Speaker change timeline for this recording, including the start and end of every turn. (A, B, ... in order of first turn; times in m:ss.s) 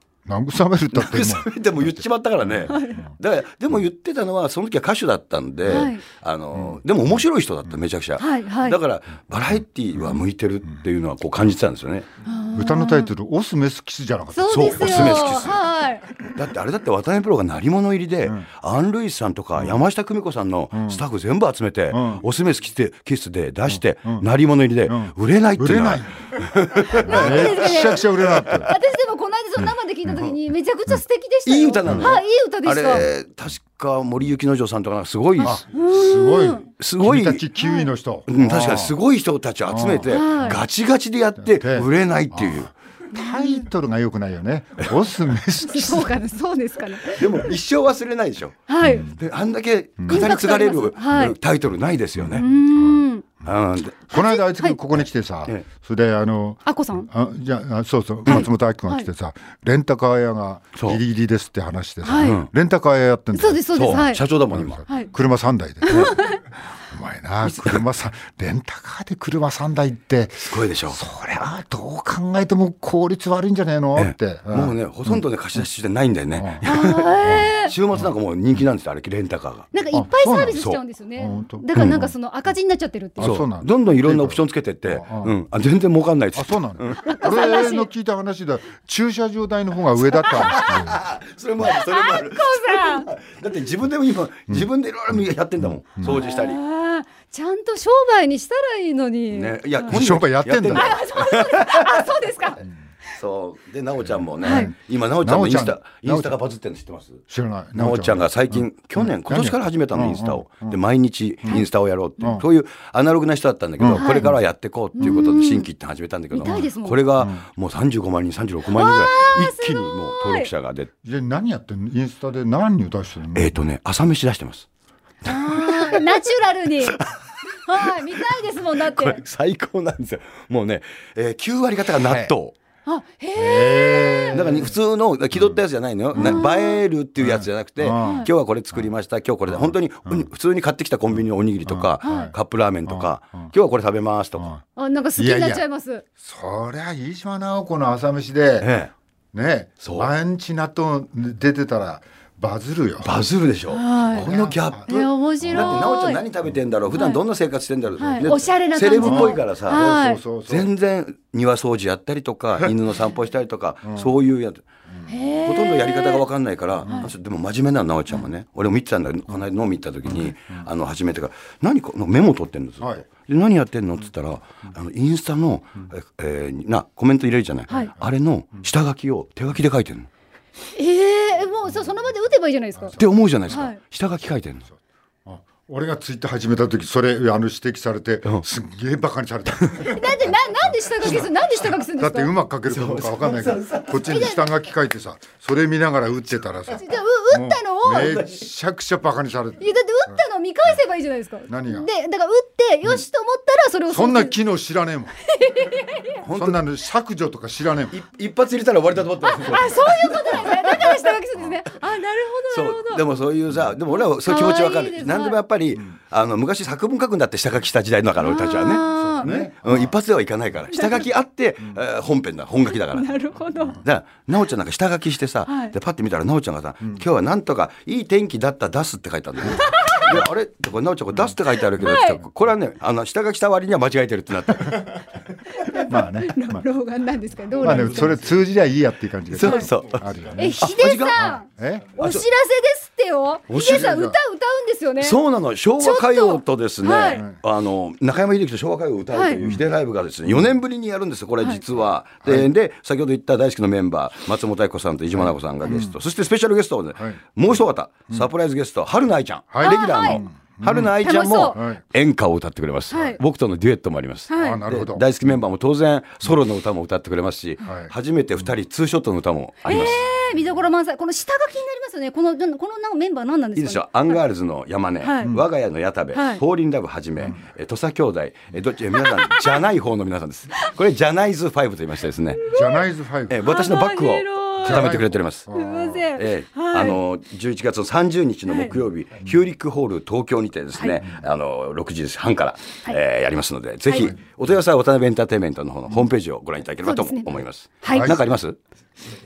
0:00.2-0:03.1 A
0:00.9-0:12.1 B
0:02.7-0:03.0 C
0:05.7-0:06.0 C
0:06.6-0:06.8 A
0:08.2-0:08.8 C
0:12.2-0:13.1 C
0:12.5-0:15.3 A
0:14.3-0:16.0 C
0:14.5-0:15.6 B
0:16.3-0:28.6 B
0:20.7-0:21.0 A
0:21.9-0:22.2 A
0:23.7-0:24.2 A
0:24.9-0:26.1 A
0:26.9-0:28.8 A
0:27.0-0:33.1 C
0:29.6-0:30.3 A
0:31.4-0:35.6 B
0:31.9-0:32.1 A
0:35.4-0:36.7 C
0:35.4-0:39.0 A
0:36.8-0:37.4 B
0:37.6-0:37.9 C
0:38.3-0:42.7 B
0:39.7-0:40.6 A
0:40.1-0:40.6 C
0:41.4-0:46.2 A
0:43.1-0:43.6 C
0:45.7-0:47.2 C
0:47.1-0:52.4 B
0:48.7-0:49.1 C
0:48.8-0:49.2 A
0:50.0-0:50.3 A
0:50.1-0:51.3 C
0:52.2-0:53.0 A
0:52.3-0:53.2 C
0:53.4-0:54.1 B
0:54.1-1:06.3 A
0:54.1-0:54.8 C
0:56.6-0:57.1 C
0:58.3-0:59.1 C
1:02.0-1:02.4 C
1:02.1-1:02.5 B
1:03.3-1:04.2 C
1:03.7-1:04.8 B
1:05.8-1:06.4 C
1:05.9-1:06.1 B
1:06.9-1:15.2 A
1:07.4-1:07.8 B
1:10.5-1:11.0 B
1:14.0-1:19.7 B
1:16.4-1:16.6 A
1:16.6-1:17.7 C
1:17.2-1:18.1 A
1:19.7-1:23.4 C
1:19.9-1:22.1 A
1:20.5-1:20.8 B
1:21.8-1:22.1 B
1:23.2-1:25.4 A
1:23.2-1:27.2 B
1:26.3-1:31.1 A
1:27.0-1:27.9 C
1:30.2-1:30.8 C
1:30.6-1:36.6 B
1:31.6-1:33.1 C
1:36.0-1:39.9 C
1:39.3-1:42.0 B
1:39.9-1:41.0 A
1:40.7-1:42.6 C
1:43.1-1:47.2 B
1:44.4-1:46.3 A
1:44.4-1:44.7 C
1:47.3-1:50.8 A
1:47.7-2:00.9 B
1:53.8-1:54.4 A
1:54.0-1:54.4 C
1:55.0-1:55.7 C
1:55.0-1:55.3 A
1:56.3-1:57.0 C
1:57.2-1:57.4 A
1:58.7-2:00.5 C
2:01.0-2:03.6 A
2:03.3-2:04.6 B
2:05.2-2:07.0 C
2:05.3-2:06.2 B
2:06.8-2:07.2 B
2:07.5-2:09.2 C
2:07.8-2:08.2 B
2:08.8-2:12.5 B
2:12.0-2:12.3 A
2:12.8-2:14.5 C
2:13.4-2:14.7 A
2:14.3-2:24.5 B
2:15.3-2:15.6 A
2:16.1-2:16.4 A
2:16.2-2:16.8 C
2:17.2-2:18.8 A
2:18.0-2:18.3 C
2:19.5-2:20.2 A
2:21.6-2:22.3 A
2:22.0-2:22.3 C
2:22.8-2:23.5 A
2:24.4-2:24.6 A
2:24.8-2:26.0 C
2:25.2-2:25.6 A
2:26.2-2:28.7 A
2:28.6-2:28.9 B
2:29.3-2:33.2 A
2:29.8-2:30.1 B
2:33.0-2:39.9 B
2:33.7-2:34.3 C
2:34.2-2:35.9 A
2:34.9-2:36.2 C
2:36.9-2:37.2 C
2:38.0-2:40.2 C
2:38.1-2:38.4 A
2:39.0-2:40.7 A
2:40.4-2:44.6 B
2:43.8-2:44.1 A
2:45.1-2:46.2 C
2:45.4-3:00.1 B
2:50.1-2:50.6 A
2:52.8-2:53.0 A
3:00.7-3:03.8 C
3:03.0-3:04.6 B
3:05.2-3:20.2 A
3:09.8-3:12.3 C
3:12.7-3:14.3 B
3:14.0-3:14.4 C
3:16.7-3:18.2 C
3:18.0-3:18.4 B
3:19.6-3:24.4 C
3:21.5-3:21.9 A
3:23.9-3:25.1 A
3:25.2-3:26.2 C
3:26.2-3:26.6 B
3:26.3-3:27.9 A
3:27.9-3:31.0 B
3:29.2-3:33.0 C
3:32.5-3:43.1 B
3:33.9-3:35.4 C
3:38.2-3:39.3 C
3:38.9-3:39.9 A
3:40.7-3:41.1 C
3:42.9-3:43.8 C
3:43.8-3:55.0 B
3:45.4-3:45.7 C
3:49.5-3:50.2 C
3:51.8-3:52.2 C
3:54.7-3:55.0 A
3:55.5-3:58.2 C
3:55.8-3:56.6 A
3:57.6-4:02.0 A
3:57.6-3:58.1 B
3:59.3-4:00.0 B
3:59.4-3:59.7 C
4:00.4-4:05.2 C
4:00.6-4:01.2 B
4:03.5-4:03.9 B
4:03.6-4:04.2 A
4:05.0-4:30.1 B
4:05.8-4:07.2 C
4:07.1-4:07.4 A
4:09.1-4:09.4 C
4:12.2-4:12.5 A
4:15.2-4:15.9 A
4:19.5-4:20.9 A
4:19.6-4:20.2 C
4:21.0-4:21.6 C
4:21.5-4:21.8 A
4:22.9-4:23.2 C
4:24.3-4:24.6 C
4:24.4-4:25.0 A
4:27.6-4:27.9 A
4:29.6-4:34.2 C
4:33.6-4:42.4 B
4:35.0-4:35.4 C
4:36.1-4:36.4 C
4:39.0-4:39.6 C
4:42.4-4:42.8 C
4:42.5-4:43.4 A
4:43.3-4:45.5 B
4:43.4-4:47.0 C
4:44.6-4:46.0 A
4:46.1-4:58.6 B
4:48.5-4:48.7 C
4:53.9-4:54.1 C
4:56.8-4:58.2 C
4:57.9-4:58.2 A